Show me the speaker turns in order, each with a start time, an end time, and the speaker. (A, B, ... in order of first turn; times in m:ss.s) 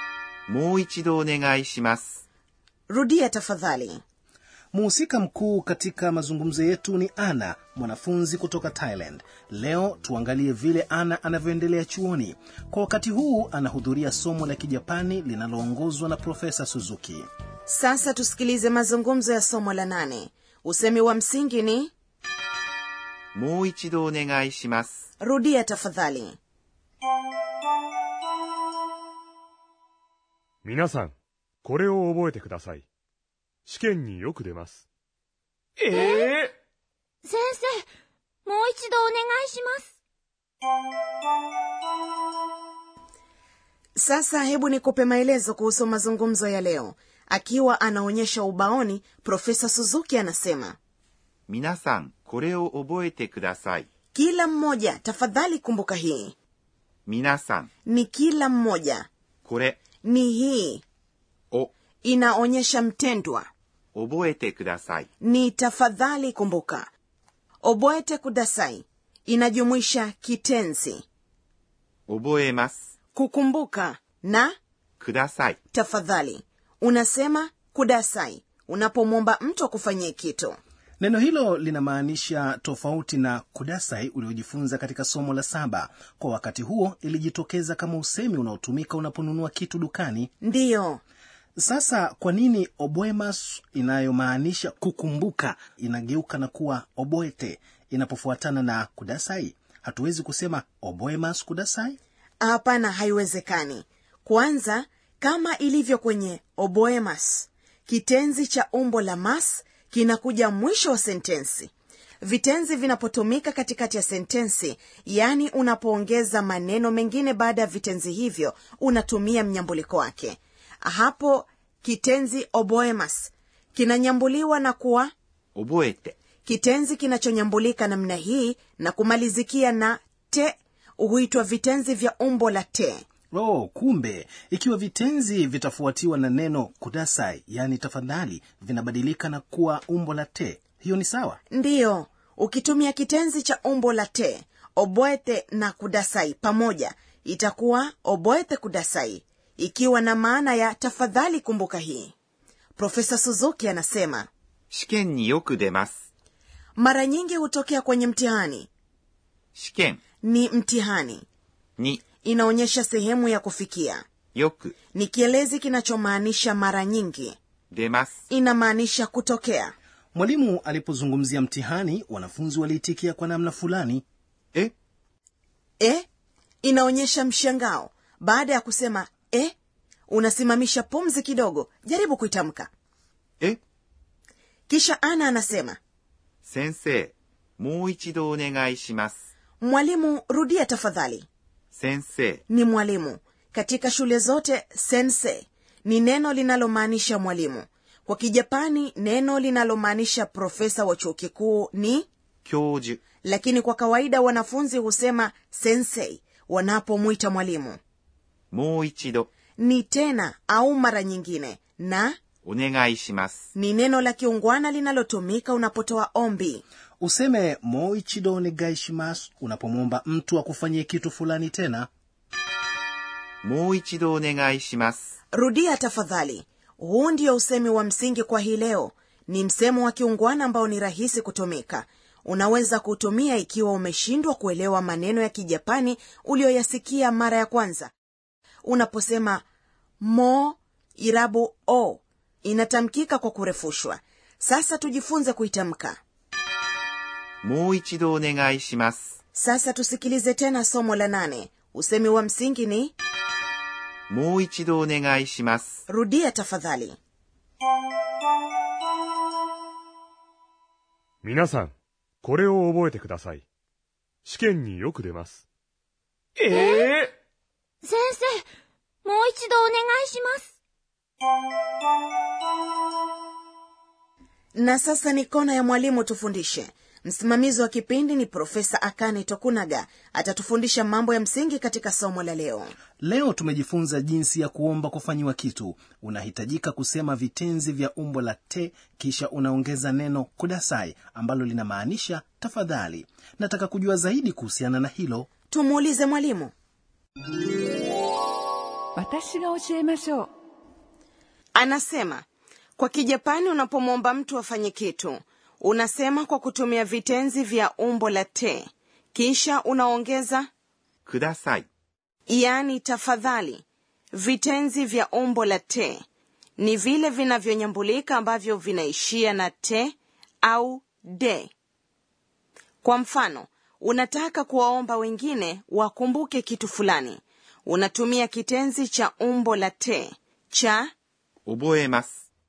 0:00.5-0:02.2 A
0:02.9-0:04.0 B
0:04.7-0:17.3 C
0:17.7-0:21.9 B
0:23.3-0:25.0 A
0:25.2-0:26.4 B
0:30.6-0:32.9 D
0:33.7-0:34.8 D
0:35.9-0:36.4 E
0:36.1-0:36.4 D
0:37.2-0:37.8 E
0:38.4-0:39.9 E
0:44.0-0:50.8 B
0:51.5-0:53.9 A
0:54.1-0:56.4 B
0:57.1-0:57.7 A
0:57.9-0:59.1 B
0:59.4-0:59.8 A
1:00.0-1:00.8 B
1:02.0-1:03.5 B
1:04.0-1:05.1 A
1:05.2-1:06.9 B
1:07.6-1:11.0 B
1:12.1-1:12.8 A
1:13.1-1:14.5 B
1:15.0-1:15.6 A
1:15.7-1:20.6 B
1:21.0-1:30.3 C
1:30.4-1:31.0 B
1:31.6-1:42.0 C
1:42.4-2:05.1 B
2:05.6-2:06.2 A
2:06.4-2:13.0 B
2:13.3-2:21.4 C
2:21.5-2:32.1 B
2:32.8-2:34.3 B
2:34.7-2:35.9 A
2:36.8-2:38.7 B
2:39.6-2:40.0 A
2:40.2-2:41.2 B
2:41.8-2:42.0 A
2:42.2-2:44.0 B
2:44.4-2:44.8 A
2:44.9-2:47.4 B
2:47.7-2:48.2 A
2:48.3-2:49.8 B
2:50.1-2:54.0 C
2:55.8-2:56.0 B
2:56.6-2:59.5 B
3:00.1-3:02.7 B
3:04.7-3:05.8 B
3:06.4-3:09.2 A
3:09.6-3:11.3 B
3:11.7-3:12.4 A
3:12.5-3:22.1 B
3:22.4-3:23.0 A
3:23.2-3:27.8 B
3:28.5-3:29.3 A
3:29.6-3:32.2 B
3:32.4-3:33.5 A
3:33.6-3:36.6 B
3:37.0-3:41.9 C
3:43.4-3:45.0 A
3:45.3-3:57.9 B
3:58.6-3:59.4 B
4:00.0-4:06.0 B
4:07.4-4:09.1 A
4:09.3-4:12.9 B
4:14.1-4:15.8 A
4:15.9-4:17.0 B
4:21.2-4:23.5 D
4:24.2-4:25.4 D
4:26.4-4:27.1 F
4:26.5-4:26.9 E
4:27.8-4:28.4 E
4:29.0-4:30.5 E
4:34.6-4:42.7 B
4:43.0-4:55.3 C
4:55.5-4:56.5 B
4:59.0-5:00.3 F
5:01.6-5:02.2 B
5:02.8-5:10.5 B
5:11.1-5:11.7 A
5:12.3-5:16.0 B
5:16.6-5:21.5 B
5:22.8-5:30.9 B
5:31.5-5:32.1 A